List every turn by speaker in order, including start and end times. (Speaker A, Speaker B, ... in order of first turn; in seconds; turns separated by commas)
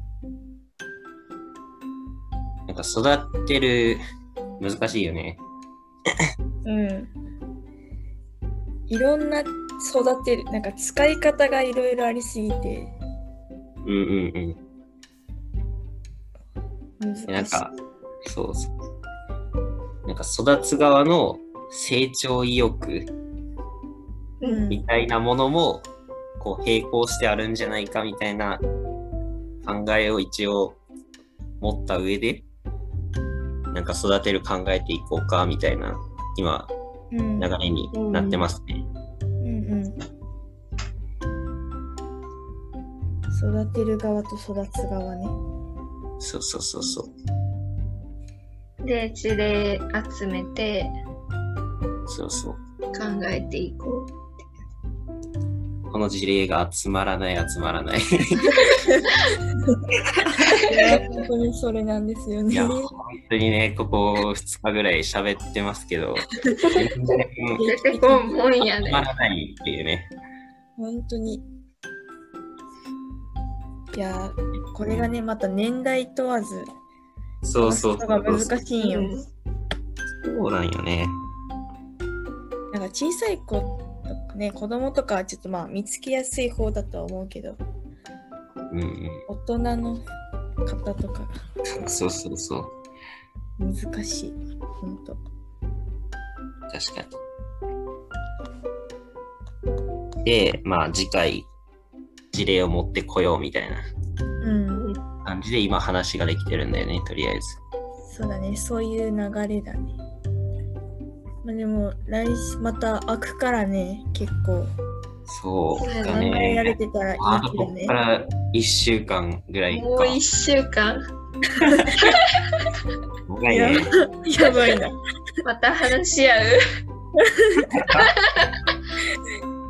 Speaker A: 2.7-4.0, Speaker A: 4.6-5.4, Speaker B: 6.6-7.1, Speaker B: 8.9-12.9, Speaker A: 13.8-14.6, Speaker B: 17.0-17.7, Speaker A: 17.3-17.7, Speaker A: 18.2-18.7, Speaker A: 20.1-23.1, Speaker B: 24.4-24.8, Speaker A: 24.7-25.9, Speaker A: 26.4-28.6, Speaker A: 29.6-30.8, Speaker A: 31.6-32.5, Speaker A: 33.7-36.7, Speaker B: 37.1-37.5, Speaker A: 37.4-38.9, Speaker C: 37.9-38.5, Speaker B: 39.4-40.0, Speaker B: 43.3-45.4, Speaker A: 46.2-47.1, Speaker C: 48.8-50.9, Speaker A: 52.1-52.6, Speaker C: 52.9-54.1, Speaker A: 55.9-58.5, Speaker C: 60.5-61.3, Speaker B: 60.6-62.9, Speaker A: 62.5-67.6, Speaker C: 66.6-69.1, Speaker B: 67.5-68.3, Speaker A: 68.8-70.1, Speaker B: 70.8-71.4, Speaker B: 73.9-76.7, Speaker A: 74.8-75.1, Speaker A: 77.4-78.5, Speaker B: 77.6-79.1, Speaker C: 78.8-79.3, Speaker A: 80.2-81.2, Speaker B: 82.7-87.6, Speaker A: 88.7-89.2, Speaker B: 89.3-90.0, Speaker B: 90.6-91.3, Speaker A: 91.8-92.7, Speaker B: 93.6-95.2, Speaker A: 96.7-97.2, Speaker A: 100.2-101.5, Speaker A: 102.3-103.8, Speaker B: 104.4-104.9, Speaker C: 104.7-105.0, Speaker A: 105.2-107.6, Speaker B: 108.0-110.0, Speaker B: 111.4-114.7, Speaker A: 115.3-120.2, Speaker C: 115.8-116.2, Speaker B: 116.1-117.9, Speaker C: 119.7-121.0, Speaker B: 121.7-122.1, Speaker A: 123.3-123.9, Speaker B: 123.5-125.0, Speaker C: 125.4-126.6, Speaker A: 127.7-128.1, Speaker C: 128.0-128.4